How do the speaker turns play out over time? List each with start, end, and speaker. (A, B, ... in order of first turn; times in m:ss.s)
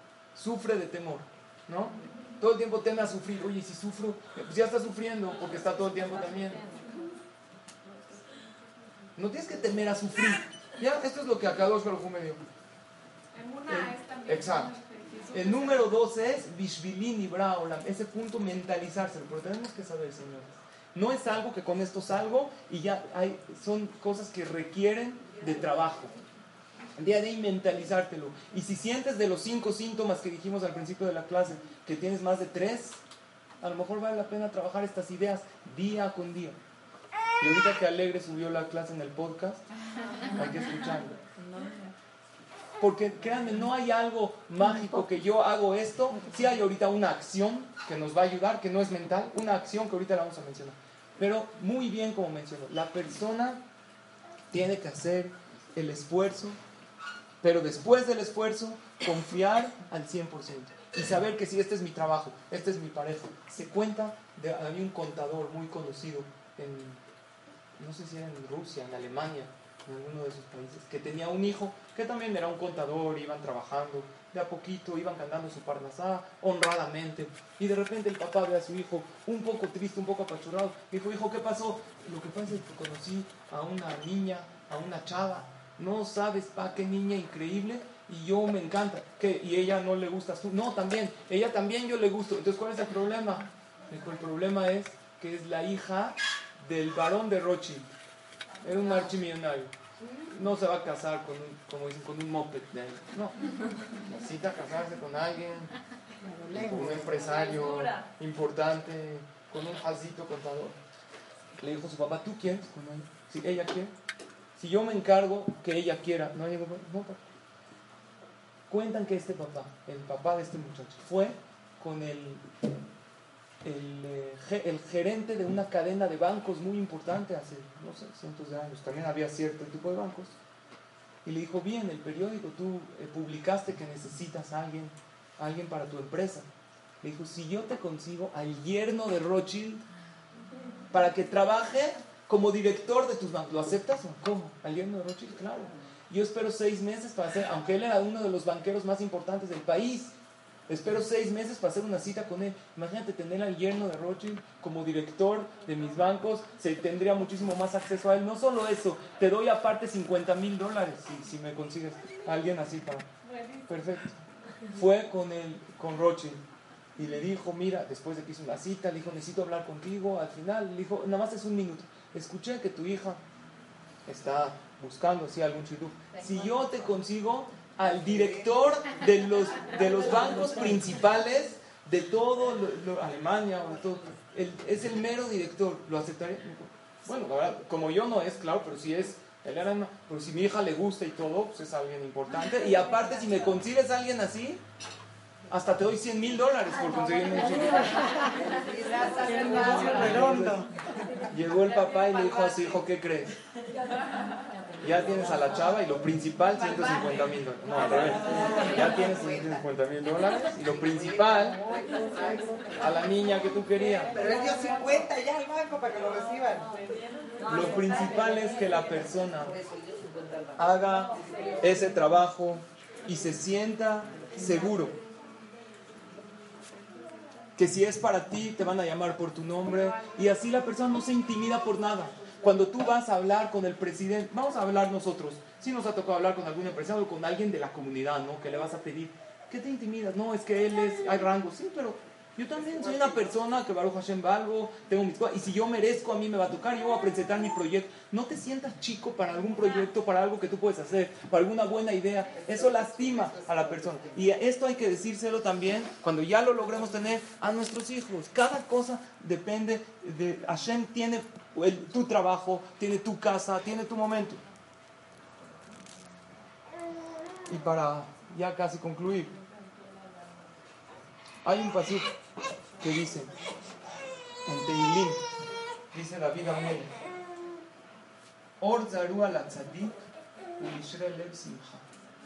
0:00.4-0:06.6 A
0:09.2-0:12.4 A
0:13.3-0:16.0 B
0:13.7-0:14.8 A
0:15.3-0:26.1 A
0:27.0-0:33.0 A
0:33.6-0:36.6 A
0:37.4-0:39.6 A
0:40.3-0:41.2 A
0:42.8-0:53.6 A
0:54.5-0:56.6 A
0:57.4-1:07.0 A
1:07.8-1:37.9 A
1:38.6-1:43.4 A
1:44.0-1:45.7 A
1:46.5-1:50.8 A
1:51.6-1:53.9 A
1:54.6-1:57.2 A
1:58.7-2:02.5 A
2:03.6-2:10.4 A
2:11.2-2:16.5 A
2:17.0-2:19.8 A
2:20.9-2:30.2 A
2:30.7-2:43.1 A
2:43.3-2:43.6 B
2:43.7-2:46.4 A
2:47.0-2:53.2 A
2:54.1-3:14.6 A
3:15.5-3:18.3 A
3:18.2-3:20.7 C
3:19.3-3:20.7 A
3:21.3-3:23.4 A
3:24.8-3:31.6 A
3:28.0-3:29.6 C
3:30.8-3:32.8 C
3:32.8-3:34.2 A
3:34.0-3:36.8 C
3:37.4-3:39.5 A
3:37.6-3:41.6 C
3:40.6-3:45.0 A
3:47.6-4:24.4 A
4:02.6-4:03.3 C
4:12.3-4:14.2 C
4:27.5-4:29.3 A
4:31.4-4:32.1 A
4:32.8-4:33.3 A
4:34.5-4:35.3 A
4:35.9-4:36.9 A
4:38.6-4:40.0 A
4:40.6-4:41.9 A